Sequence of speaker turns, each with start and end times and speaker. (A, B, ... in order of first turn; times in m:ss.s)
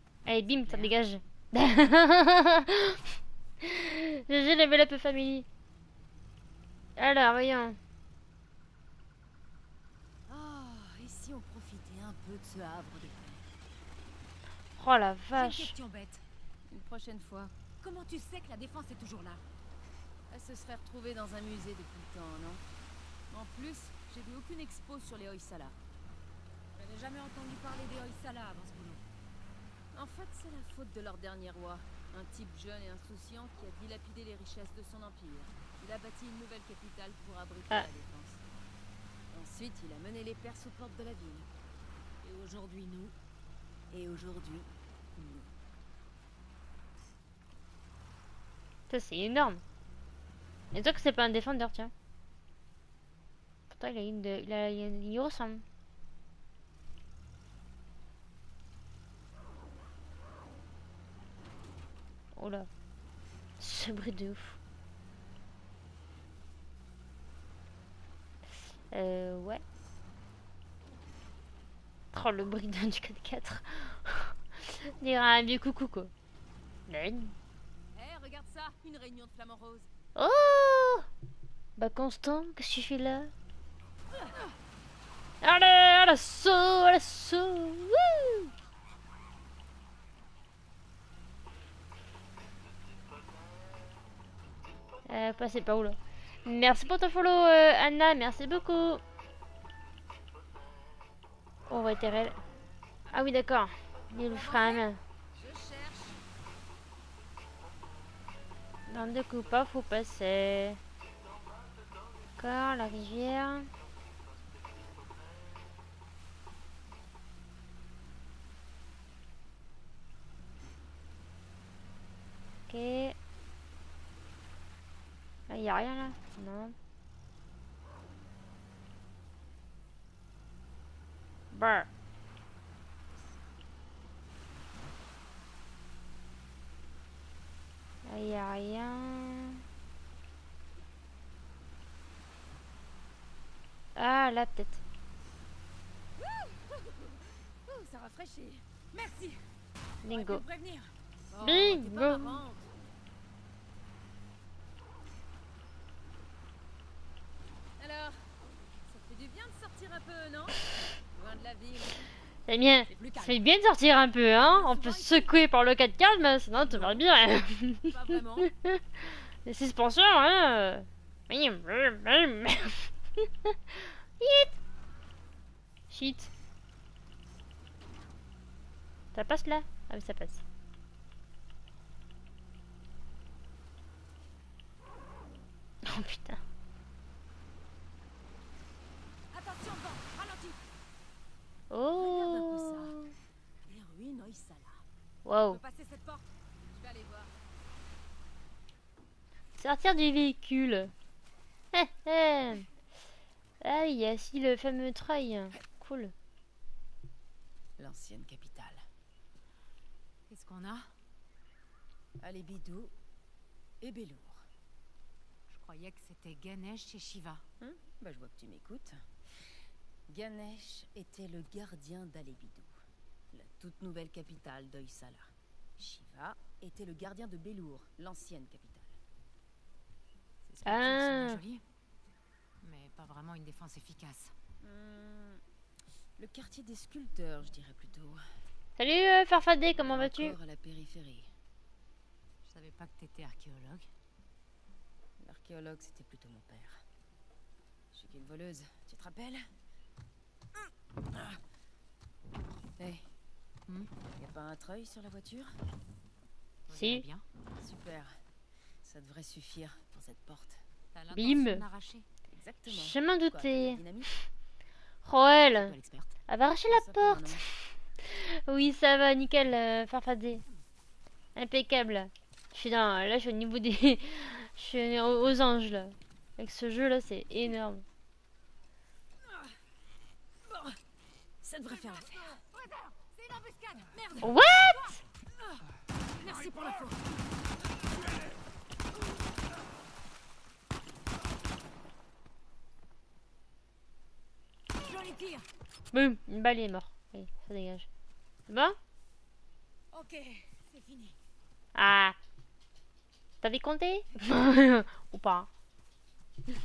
0:00.3-0:03.0 A
0:00.4-0:01.0 B
0:03.6-0:05.5 A
0:07.0-0:07.8 A
0:10.3-0:13.5 C
0:14.8-0:15.8 A
0:15.3-0:16.2 B
0:16.7-0:17.5 C
0:17.8-0:19.4 B
0:20.3-0:22.6 C
0:23.3-0:25.8 C
0:26.8-0:29.0 B
0:29.9-0:38.4 C
0:39.3-0:41.5 C
0:42.2-0:43.2 B
0:43.9-0:45.5 C
0:48.9-0:49.6 A
0:50.7-0:51.9 A
0:53.7-0:55.6 A
1:02.3-1:02.7 A
1:03.6-1:04.6 A
1:08.9-1:09.6 A
1:12.1-1:16.1 A
1:16.9-1:17.4 A
1:17.9-1:19.9 C
1:20.2-1:21.1 A
1:21.8-1:23.3 A
1:25.4-1:28.5 A
1:35.1-1:39.0 A
1:41.7-1:42.4 A
1:43.1-1:45.0 A
1:44.2-1:46.2 C
1:48.9-1:50.8 A
1:52.4-1:53.7 A
2:02.7-2:03.2 A
2:05.5-2:06.8 A
2:11.5-2:11.9 A
2:18.1-2:19.6 A
2:24.0-2:24.8 A
2:26.3-2:29.4 C
2:29.0-2:29.3 B
2:30.0-2:30.4 A
2:30.1-2:30.9 B
2:31.3-2:32.7 C
2:31.4-2:32.4 A
2:37.8-2:42.1 C
2:42.5-2:48.8 A
2:42.9-2:43.4 C
2:44.4-2:45.4 C
2:46.6-2:47.1 C
2:47.8-2:48.5 C
2:49.4-2:54.5 A
2:55.9-2:56.3 A
2:59.1-3:00.4 A
3:05.8-3:06.4 A
3:09.3-3:10.6 B
3:11.7-3:13.1 A
3:12.0-3:13.0 C
3:13.7-3:14.8 C
3:15.2-3:15.6 A
3:15.5-3:16.2 B
3:16.7-3:17.3 C
3:19.6-3:20.9 A
3:21.7-3:22.7 A
3:23.6-3:26.1 A
3:27.8-3:28.8 C
3:30.3-3:30.9 B
3:32.2-3:32.9 C
3:33.8-3:34.4 C
3:35.5-3:37.4 B
3:37.6-3:39.0 C
3:40.1-3:42.7 C
3:43.3-3:49.0 C
3:50.5-3:51.6 B
3:50.6-3:51.4 A
3:52.6-3:54.3 B
3:54.6-3:55.4 C
3:56.2-3:58.2 C
3:58.8-4:00.4 A
3:59.7-4:01.3 C
4:02.5-4:03.9 B
4:05.2-4:06.8 C
4:07.9-4:09.5 C
4:11.1-4:11.4 C
4:12.8-4:13.1 C
4:14.2-4:15.6 C
4:16.7-4:17.3 B
4:16.7-4:17.0 A
4:17.6-4:18.1 C
4:18.8-4:20.6 C
4:20.9-4:22.1 B
4:21.1-4:21.6 A
4:22.3-4:24.1 C
4:22.7-4:24.2 A
4:25.0-4:25.8 A
4:25.5-4:26.1 B
4:26.3-4:30.4 A
4:26.7-4:27.4 C
4:31.4-4:37.8 A
4:40.4-4:40.8 C
4:41.4-4:42.4 C
4:41.7-4:45.0 B
4:44.2-4:45.0 A
4:46.2-4:47.0 B
4:46.2-4:46.9 C
4:54.8-4:55.5 B
4:55.9-4:57.9 A
4:58.5-4:58.8 A
4:59.9-5:01.2 B
5:01.8-5:02.2 A
5:03.4-5:05.5 A